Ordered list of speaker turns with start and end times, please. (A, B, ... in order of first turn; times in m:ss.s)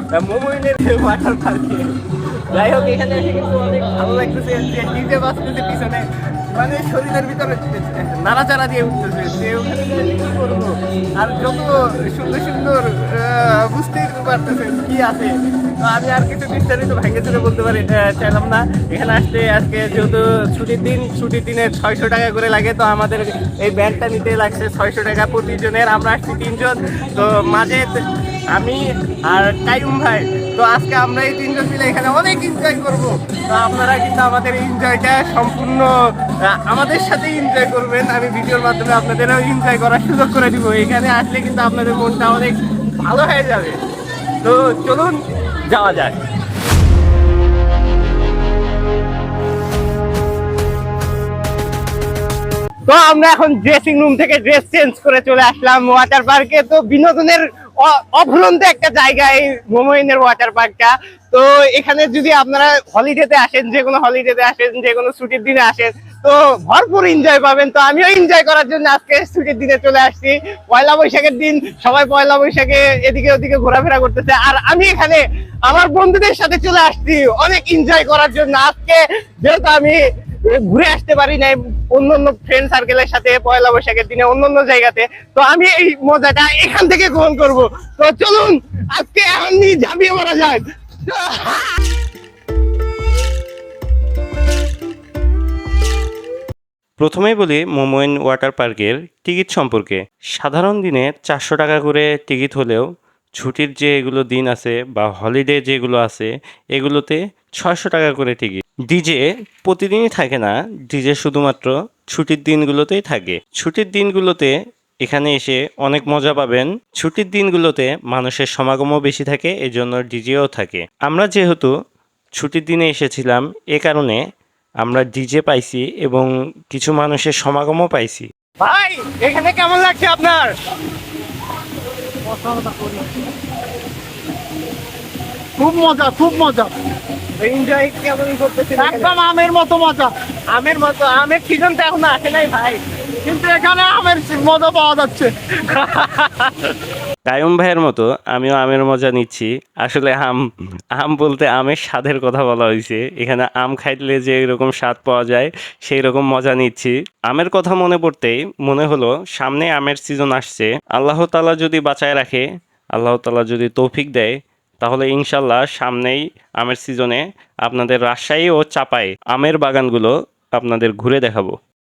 0:00.2-0:01.9 A
0:02.5-0:27.9 A
0:28.5-0:35.9 A
0:36.4-0:43.8 A
0:44.4-0:46.2 A
0:52.9-1:31.7 A
1:37.0-1:42.8 B
1:43.4-1:54.5 B
1:55.0-2:01.7 B
2:02.4-2:04.2 B
2:04.8-2:08.2 B
2:08.6-2:10.5 A
2:12.2-2:13.1 C
2:15.6-2:16.7 C
2:17.4-2:19.1 A
2:18.8-2:20.1 C
2:20.5-2:22.8 A
2:23.2-2:25.3 C
2:25.7-2:26.5 A
2:27.3-2:30.4 B
2:31.0-2:42.4 B
2:42.9-2:51.5 B